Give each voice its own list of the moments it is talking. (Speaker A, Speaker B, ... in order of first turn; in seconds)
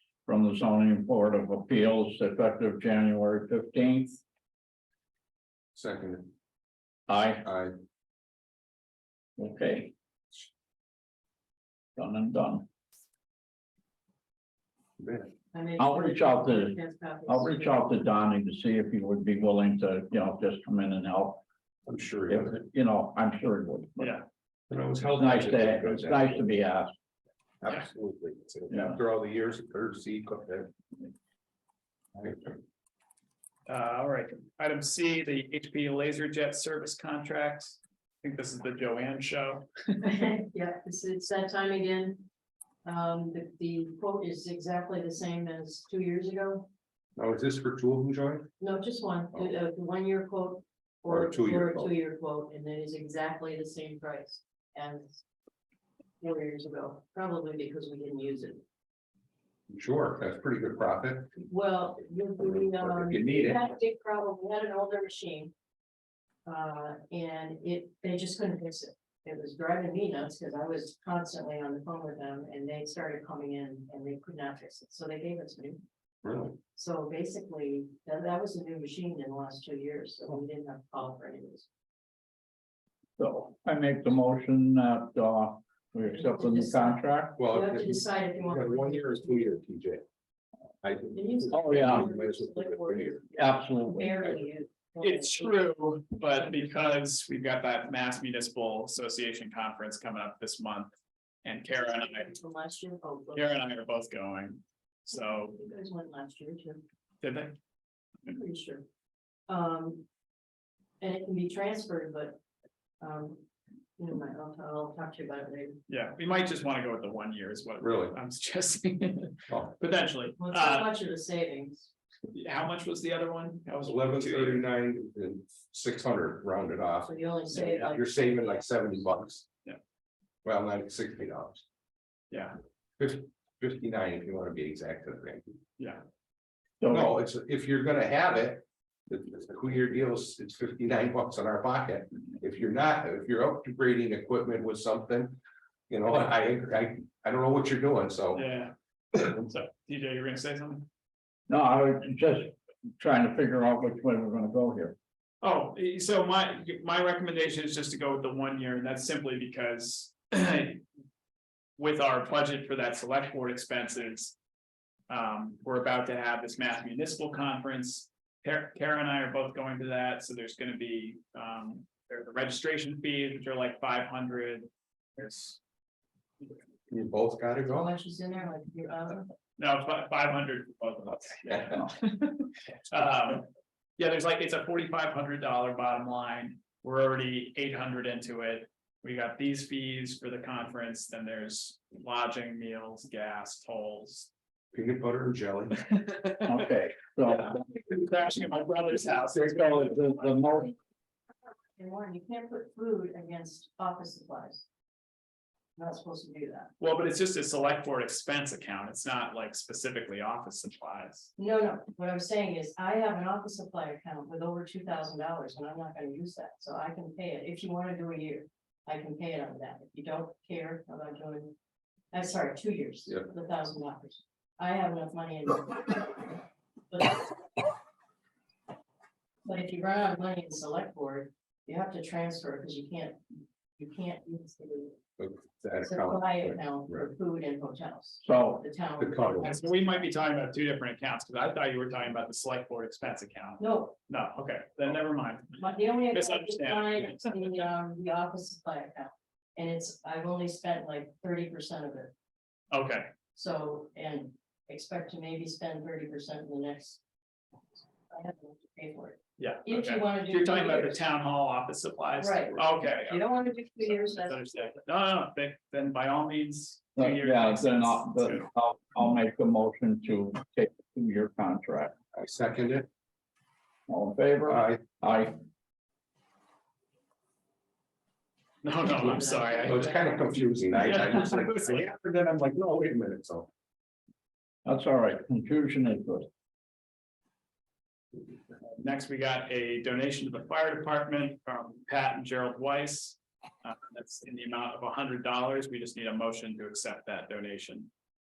Speaker A: 0.3-4.2, 7.1-7.5, 9.4-9.9, 12.0-12.7, 15.8-21.4, 22.3-24.2, 25.0-26.9, 28.7-29.0, 83.2-87.4, 91.5-92.1, 93.3-94.4, 136.8-137.1, 151.5-155.0, 196.4-197.6, 199.4-200.7, 238.2-238.6, 267.0-271.9, 273.9-275.4, 284.6-286.3
Speaker B: 5.7-6.3, 7.4-7.8, 15.0-15.3, 21.9-22.6, 24.7-26.4, 27.6-30.7, 32.1-32.6, 47.2-48.5, 51.1-51.9, 59.7-61.3, 62.4-63.6, 76.2-76.6, 87.4-90.0, 90.8-93.2, 117.8-118.2, 119.5-119.8, 123.9-129.4, 130.4-131.6, 133.0-135.6, 136.9-148.4, 176.9-177.9, 194.7-195.8, 235.2-237.1, 239.0-239.6, 272.1-272.9, 274.5-274.8, 279.6-283.5
Speaker C: 15.5-17.8, 40.0-42.3, 42.8-46.7, 48.6-55.2, 56.2-58.6, 61.4-65.5, 66.5-75.8, 76.7-81.7, 86.1-89.5, 91.2-95.7, 101.8-103.6, 105.2-106.8, 108.3-108.8, 109.5-110.1, 111.0-112.4, 113.0-113.5, 114.0-115.8, 120.4-121.9, 127.0-129.0, 177.7-179.3, 201.8-204.7, 205.8-206.7, 211.4-221.5, 222.1-225.8, 226.9-227.2, 229.4-233.2, 233.8-235.0, 235.8-240.1, 243.6-244.0, 245.6-252.1, 253.3-257.0, 258.1-261.0, 262.2-264.4, 279.0-280.0
Speaker D: 24.0-24.2, 33.7-39.7, 95.0-100.9, 101.4-102.3, 103.3-105.5, 107.2-107.5, 115.9-120.9, 122.3-124.6, 132.3-132.6, 135.8-136.0, 148.3-150.9, 155.4-160.8, 161.8-164.3, 165.1-175.6, 179.6-194.3, 195.9-196.5, 197.3-200.2, 206.8-211.3, 239.4-247.7, 252.7-253.1, 259.4-268.5, 278.6-280.1, 280.8-281.8, 288.7-297.9